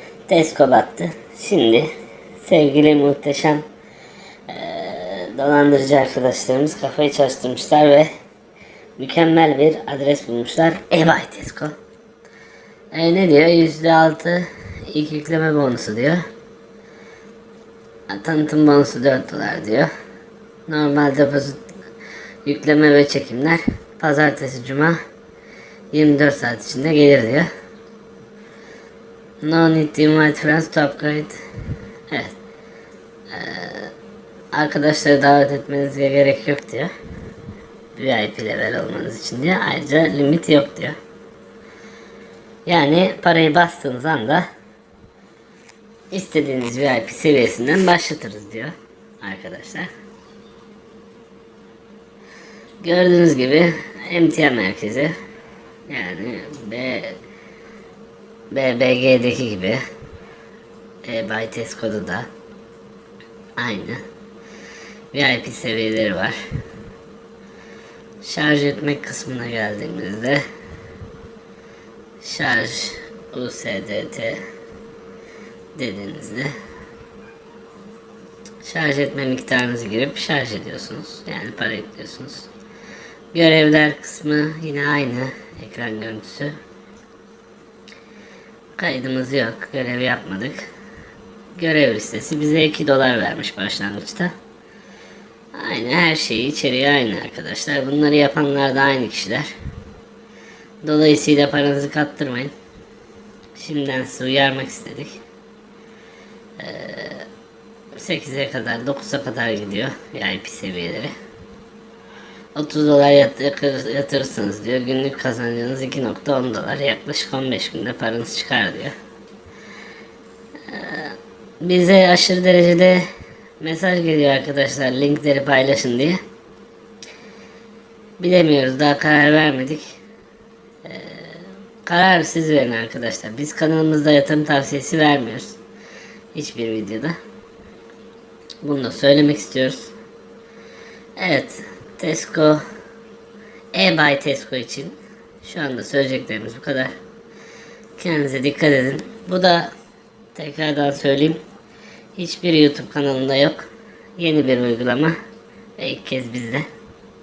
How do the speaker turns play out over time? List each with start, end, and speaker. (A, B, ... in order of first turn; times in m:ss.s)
0:00.3-0:01.9 A
0:02.4-0:03.6 A
0:04.5-0:08.1 A
0:09.0-0:11.7 A
0:12.9-0:16.2 A
0:18.1-0:19.9 A
0:20.7-0:21.6 A
0:22.4-0:25.0 A
0:25.9-0:27.5 A
0:29.4-0:31.4 A
0:32.1-0:32.4 A
0:33.3-0:33.9 A
0:34.5-0:36.9 A
0:37.9-0:41.0 A
0:42.7-0:44.4 A
0:46.1-0:49.9 A
0:52.8-0:55.1 A
0:55.9-0:57.2 A
0:58.5-0:59.8 A
1:01.0-1:02.3 A
1:03.6-1:04.0 A
1:05.1-1:06.4 A
1:08.2-1:10.4 A
1:12.2-1:14.4 A
1:15.7-1:16.5 A
1:18.6-1:22.5 A
1:23.3-1:26.5 A
1:28.7-1:30.7 A
1:31.6-1:34.3 A
1:35.6-1:39.5 A
1:40.8-1:42.5 A
1:43.6-1:45.2 A
1:46.6-1:47.3 A
1:47.9-1:51.2 A
1:52.6-1:58.9 A
2:00.7-2:03.0 A
2:03.6-2:06.2 A
2:08.2-2:09.9 A
2:10.8-2:15.6 A
2:16.3-2:17.2 A
2:18.6-2:19.9 A
2:21.2-2:22.6 A
2:23.7-2:26.9 A
2:28.0-2:29.7 A
2:30.3-2:31.4 A
2:32.2-2:33.7 A
2:34.2-2:35.2 A
2:35.8-2:36.7 A